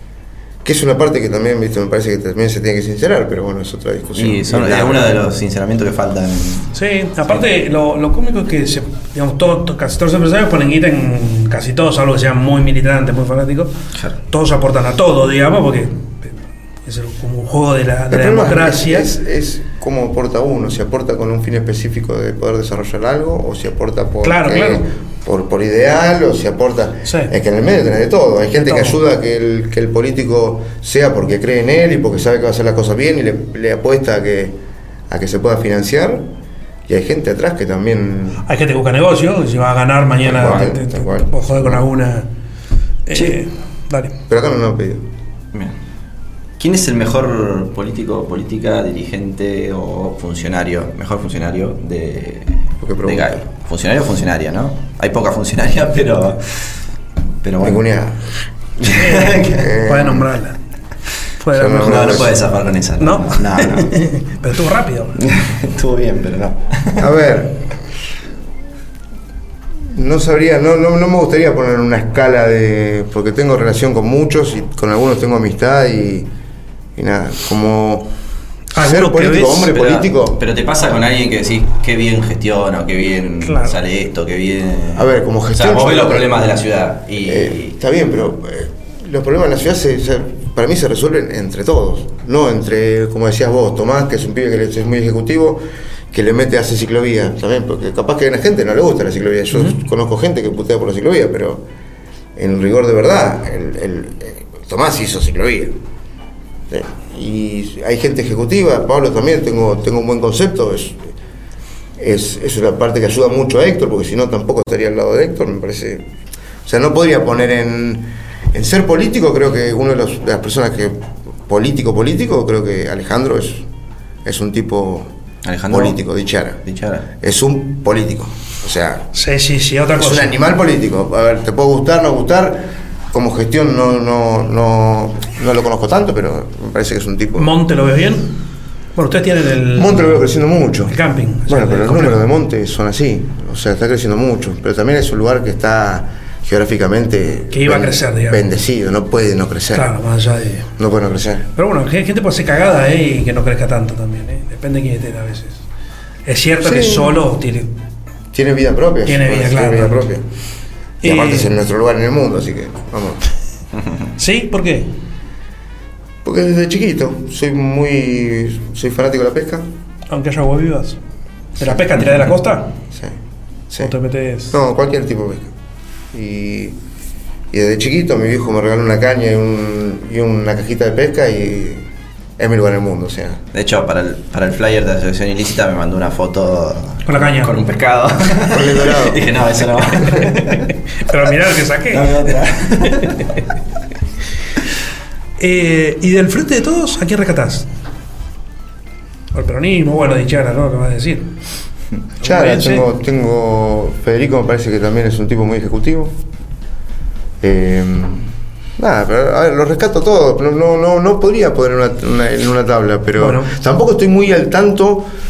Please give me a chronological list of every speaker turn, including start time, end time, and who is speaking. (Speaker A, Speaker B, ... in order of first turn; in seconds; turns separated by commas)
Speaker A: 0.6-5.2, Speaker B: 4.2-6.8, Speaker C: 6.7-13.7, Speaker C: 14.3-16.3, Speaker C: 16.8-19.1, Speaker A: 18.1-34.6, Speaker C: 24.2-24.8, Speaker C: 27.0-27.3, Speaker C: 28.6-29.0, Speaker A: 35.1-36.2, Speaker A: 36.9-38.4, Speaker C: 38.4-42.3, Speaker A: 40.2-41.9, Speaker C: 43.1-44.1, Speaker B: 43.1-43.4, Speaker A: 44.3-45.0, Speaker B: 46.6-56.7, Speaker A: 52.8-53.4, Speaker B: 57.4-57.8, Speaker A: 57.6-60.3, Speaker C: 58.8-60.5, Speaker B: 58.8-59.7, Speaker C: 61.4-62.3, Speaker A: 61.5-62.4, Speaker B: 61.8-64.0, Speaker C: 63.0-65.2, Speaker B: 65.2-67.1, Speaker A: 67.0-67.9, Speaker A: 69.9-76.3, Speaker A: 77.0-78.1, Speaker C: 78.7-79.7, Speaker A: 78.7-80.4, Speaker B: 79.7-87.7, Speaker C: 83.4-83.8, Speaker A: 84.9-86.3, Speaker A: 87.2-95.6, Speaker A: 96.1-101.6, Speaker A: 102.3-105.7, Speaker A: 106.7-111.0, Speaker A: 112.0-116.1, Speaker A: 116.7-123.7, Speaker A: 124.2-125.1, Speaker B: 125.4-126.0, Speaker A: 125.7-126.6, Speaker B: 126.6-127.0, Speaker A: 127.2-129.1, Speaker C: 129.1-130.3, Speaker A: 129.9-137.5, Speaker C: 137.3-138.3, Speaker C: 138.9-140.2, Speaker A: 139.7-140.9, Speaker C: 140.9-142.2, Speaker A: 141.5-149.9, Speaker C: 147.5-148.4, Speaker C: 149.7-150.7, Speaker A: 150.8-151.5, Speaker C: 151.6-155.6, Speaker C: 156.2-157.7, Speaker A: 156.6-157.2, Speaker A: 158.3-160.2, Speaker C: 159.1-160.1, Speaker C: 161.0-161.5, Speaker A: 161.0-163.2, Speaker C: 164.2-164.9, Speaker A: 166.2-169.7, Speaker C: 170.1-171.0, Speaker C: 171.6-172.7, Speaker C: 173.8-174.5, Speaker A: 174.5-175.5, Speaker A: 176.1-176.8, Speaker A: 177.5-181.8, Speaker A: 182.4-183.4, Speaker B: 183.5-190.8, Speaker C: 187.1-187.6, Speaker A: 188.4-189.3, Speaker C: 190.5-193.4, Speaker B: 191.9-193.4, Speaker C: 195.4-197.7, Speaker C: 199.3-201.3, Speaker C: 202.2-202.8, Speaker A: 202.2-206.2, Speaker A: 207.4-215.1, Speaker C: 213.2-213.5